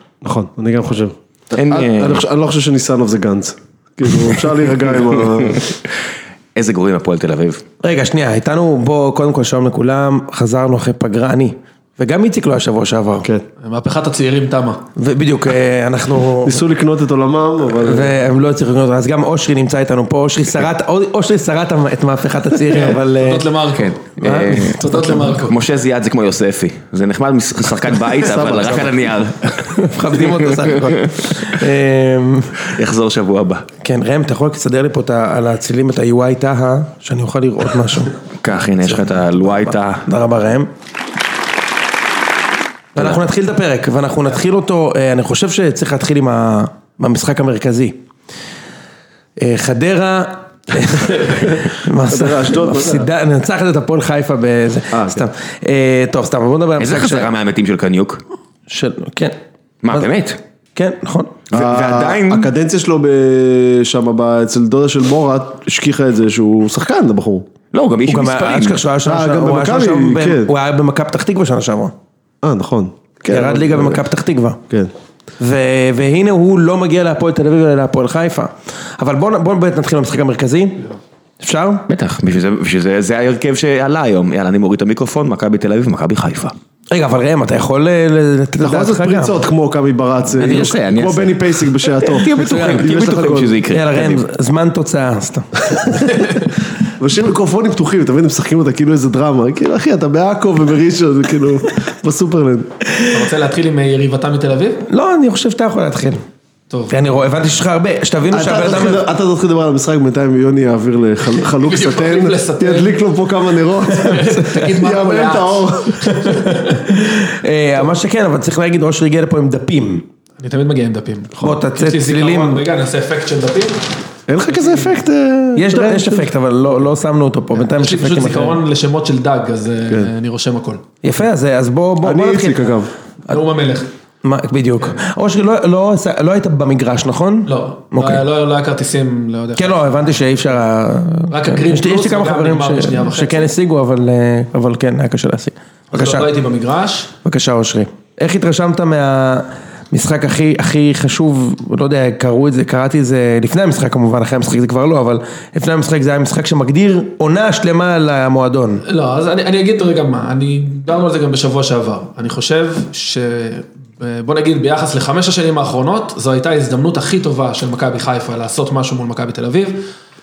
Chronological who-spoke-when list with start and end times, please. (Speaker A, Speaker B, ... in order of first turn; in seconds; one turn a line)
Speaker A: 0.2-5.7
Speaker B: 1.5-2.2
Speaker B: 5.3-5.7
Speaker B: 6.5-7.6
Speaker C: 7.8-13.3
Speaker D: 13.6-14.8
Speaker C: 15.0-16.6
Speaker A: 16.4-18.2
Speaker C: 17.8-23.5
Speaker D: 22.7-25.6
Speaker B: 23.8-31.3
Speaker C: 24.2-25.4
Speaker A: 28.2-29.0
Speaker C: 29.6-32.7
Speaker B: 32.6-33.7
Speaker C: 33.8-38.2
Speaker B: 38.4-40.0
Speaker C: 38.9-40.7
Speaker C: 42.9-48.0
Speaker C: 49.4-57.3
Speaker A: 52.0-53.1
Speaker A: 54.9-55.3
Speaker B: 56.8-58.2
Speaker C: 58.7-59.4
Speaker B: 59.8-60.4
Speaker C: 60.7-61.4
Speaker B: 61.5-62.5
Speaker A: 61.5-67.5
Speaker B: 67.7-68.8
Speaker C: 68.0-71.9
Speaker A: 69.0-70.5
Speaker A: 72.4-74.0
Speaker C: 73.3-74.6
Speaker C: 75.4-81.8
Speaker B: 81.9-86.5
Speaker C: 86.9-89.4
Speaker A: 88.6-93.6
Speaker B: 90.4-94.2
Speaker C: 90.5-90.7
Speaker C: 92.3-93.0
Speaker C: 93.7-96.4
Speaker A: 97.0-102.7
Speaker C: 103.0-103.3
Speaker D: 103.1-104.8
Speaker C: 104.9-106.2
Speaker D: 106.7-107.1
Speaker C: 106.9-109.1
Speaker A: 108.3-116.4
Speaker D: 111.2-113.0
Speaker D: 113.9-116.7
Speaker C: 116.2-120.0
Speaker D: 120.4-123.9
Speaker C: 121.4-122.6
Speaker A: 124.3-126.3
Speaker D: 124.4-125.0
Speaker C: 125.5-128.6
Speaker D: 127.5-130.8
Speaker C: 131.0-132.6
Speaker A: 132.0-132.9
Speaker D: 133.3-133.9
Speaker C: 134.2-138.2
Speaker D: 137.4-140.2
Speaker C: 139.6-146.3
Speaker D: 141.3-143.5
Speaker D: 145.9-147.1
Speaker C: 147.2-158.8
Speaker D: 158.8-169.9